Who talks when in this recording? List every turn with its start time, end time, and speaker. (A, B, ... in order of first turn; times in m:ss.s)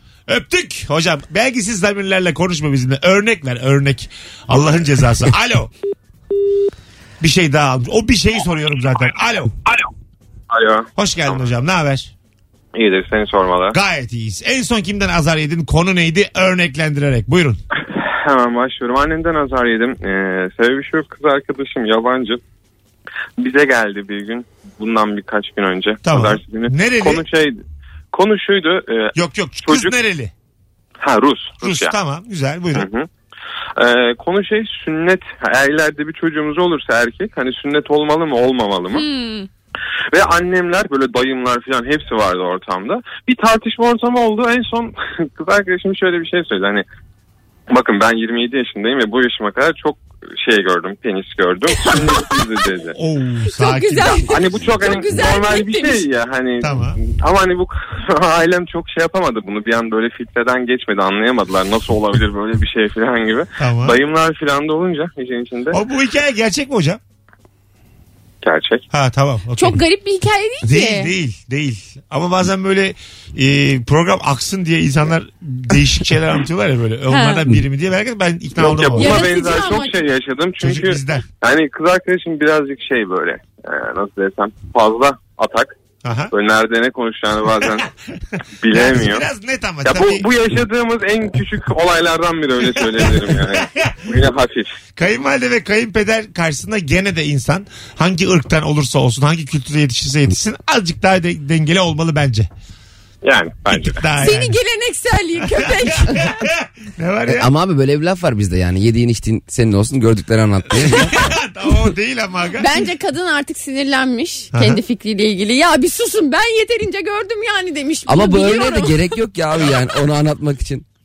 0:00.3-0:05.7 A
0:07.2-0:09.5 A
0:10.5-0:11.4 B
0:11.0-0:12.1 A
0:12.7-0:13.8 B
0:13.7-0:17.6 A
0:17.9-0:22.4 B
0:23.4-0:27.6 B
0:26.0-0:27.2 A
0:28.1-0:29.9 B
0:29.1-0:30.3 A
0:31.0-0:31.9 B
0:31.6-0:32.8 A
0:32.7-0:33.1 B
0:33.8-0:39.0 B
0:38.9-0:39.5 C
0:40.1-0:46.8 B
0:47.7-0:53.0 B
0:51.8-0:52.4 C
0:52.9-0:54.2 A
0:53.5-0:56.0 C
0:54.3-1:05.8 B
0:56.6-0:57.0 A
1:03.6-1:04.0 A
1:05.7-1:07.0 A
1:08.4-1:08.8 B
1:08.9-1:09.8 A
1:09.6-1:11.1 C
1:10.6-1:19.3 A
1:17.1-1:17.4 C
1:18.6-1:25.7 B
1:19.0-1:20.0 C
1:20.6-1:21.2 A
1:26.0-1:26.3 A
1:26.3-1:27.9 B
1:28.6-1:29.2 B
1:28.7-1:30.2 A
1:29.8-1:34.8 B
1:33.1-1:34.0 A
1:35.0-1:42.5 A
1:43.2-1:44.0 B
1:43.7-1:44.6 A
1:44.2-1:46.4 C
1:45.5-1:47.5 A
1:47.2-1:51.2 D
1:50.9-1:52.8 A
1:52.6-1:59.1 C
1:54.5-1:54.8 A
1:58.1-2:00.8 D